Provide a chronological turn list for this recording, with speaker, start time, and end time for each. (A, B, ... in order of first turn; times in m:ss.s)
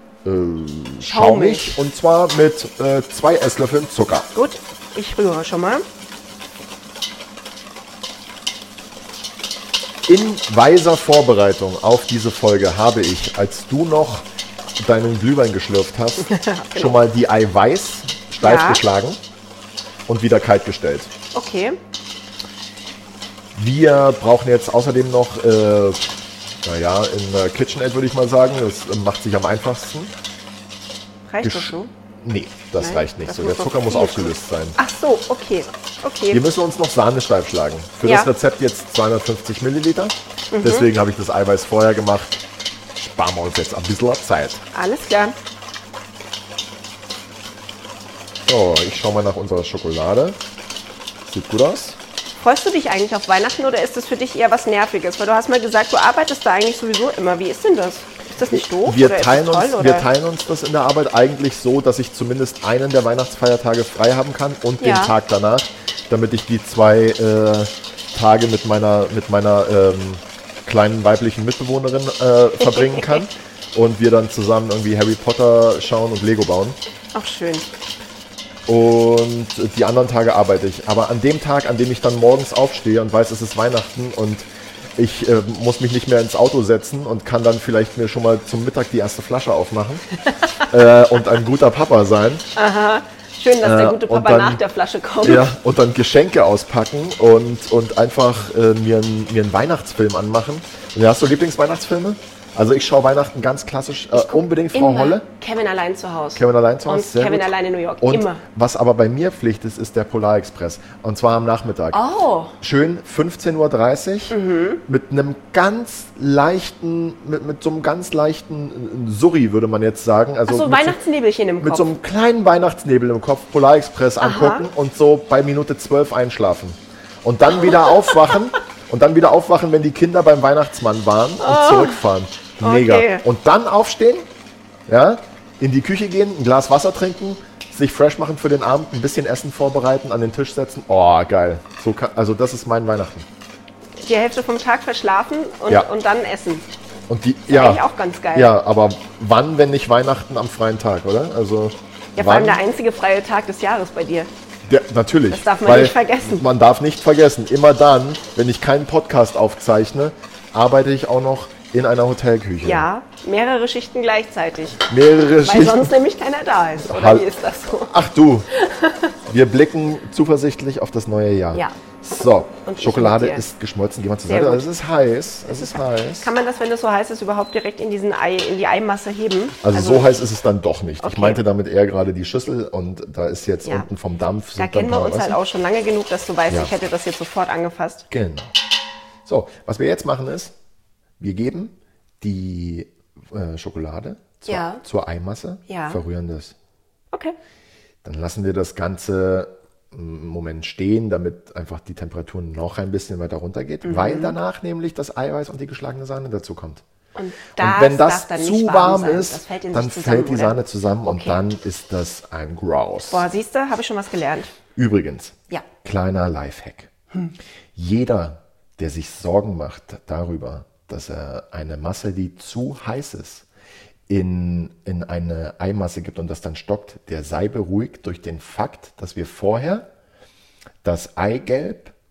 0:00.2-0:04.3 A
0:01.0-0:01.8 B
0:04.3-0:05.8 B
0:10.1-0:14.3 A
0:14.8-0:19.2 A
0:16.2-0:17.0 B
0:18.4-0:18.8 B
0:20.1-0:21.1 A
0:21.3-0:21.8 B
0:23.5-0:30.1 A
0:31.3-0:31.9 B
0:31.4-0:34.8 A
0:32.8-0:36.4 B
0:36.3-0:42.4 A
0:38.0-0:38.3 B
0:40.5-0:40.9 B
0:43.0-0:44.6 A
0:44.7-0:45.4 B
0:48.4-0:50.4 A
0:51.2-0:52.0 A
0:52.4-1:00.1 B
0:58.5-1:16.8 A
1:04.8-1:05.1 B
1:12.6-1:13.3 B
1:17.1-1:17.7 B
1:18.7-1:30.0 A
1:30.2-1:30.7 B
1:30.7-1:32.5 A
1:32.6-1:35.5 B
1:33.6-1:34.6 A
1:35.2-1:45.2 A
1:44.1-1:48.4 B
1:46.4-1:52.0 A
1:51.9-1:52.5 B
1:52.6-2:01.0 A
1:54.3-1:54.8 B
2:00.5-2:01.9 B
2:01.6-2:14.2 A
2:04.2-2:04.6 B
2:07.5-2:08.3 B
2:11.4-2:12.0 B
2:12.6-2:13.2 B
2:14.9-2:23.3 A
2:24.0-2:26.6 B
2:27.1-2:32.6 A
2:27.5-2:28.5 B
2:32.2-2:34.3 B
2:34.6-2:42.8 A
2:35.3-2:36.4 B
2:42.6-2:44.8 B
2:44.9-2:45.9 A
2:45.4-2:47.9 B
2:46.8-2:47.3 A
2:47.9-2:48.5 A
2:48.5-2:49.2 B
2:49.3-2:56.3 A
2:52.6-2:53.4 B
2:54.3-2:54.6 B
2:56.2-3:00.1 B
2:59.6-3:05.4 A
3:01.0-3:01.4 B
3:04.5-3:08.1 B
3:08.1-3:08.5 A
3:09.2-3:10.5 A
3:11.2-3:16.5 A
3:14.4-3:14.8 B
3:15.7-3:16.0 B
3:18.0-3:26.8 A
3:23.8-3:24.4 B
3:27.2-3:31.4 B
3:27.6-3:33.3 A
3:33.1-3:34.5 B
3:34.8-3:36.9 A
3:37.7-3:43.4 A
3:44.1-3:49.9 A
3:50.8-3:51.9 A